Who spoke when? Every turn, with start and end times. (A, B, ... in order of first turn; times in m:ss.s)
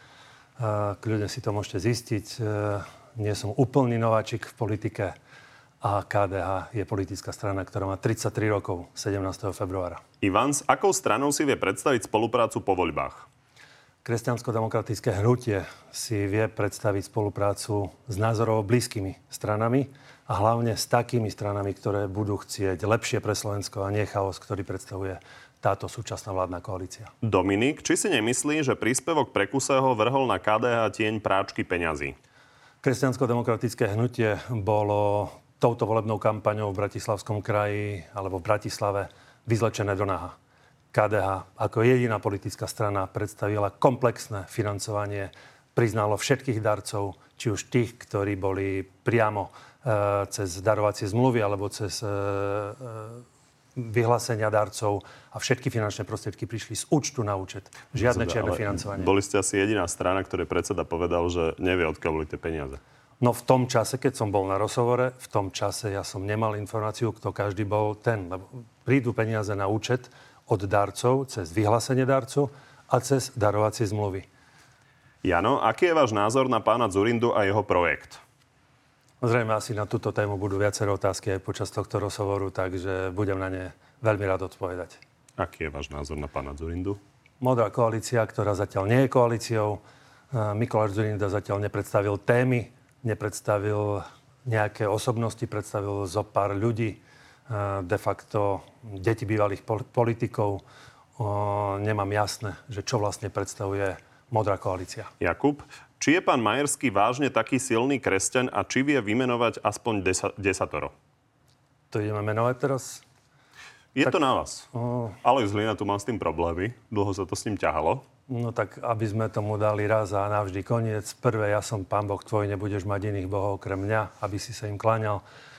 0:00.6-0:05.1 A
0:05.8-0:10.0 A
0:10.2-0:13.3 B
0:14.0-0:27.1 A
0:27.2-0:32.2 B
0:32.8-0:40.3 A
0:40.9-0:53.2 A
0:53.8-0:59.1 A
0:57.9-1:02.8 B
1:03.2-1:14.3 A
1:15.2-1:18.2 B
1:19.2-1:25.0 A
1:25.4-1:27.0 B
1:27.4-1:29.8 A
1:30.3-1:40.6 A
1:41.2-1:45.1 A
1:45.2-1:50.9 B
1:51.9-1:53.0 A
1:53.9-1:54.7 B
1:54.7-1:55.2 A
1:55.2-1:58.0 B
1:58.3-2:05.2 A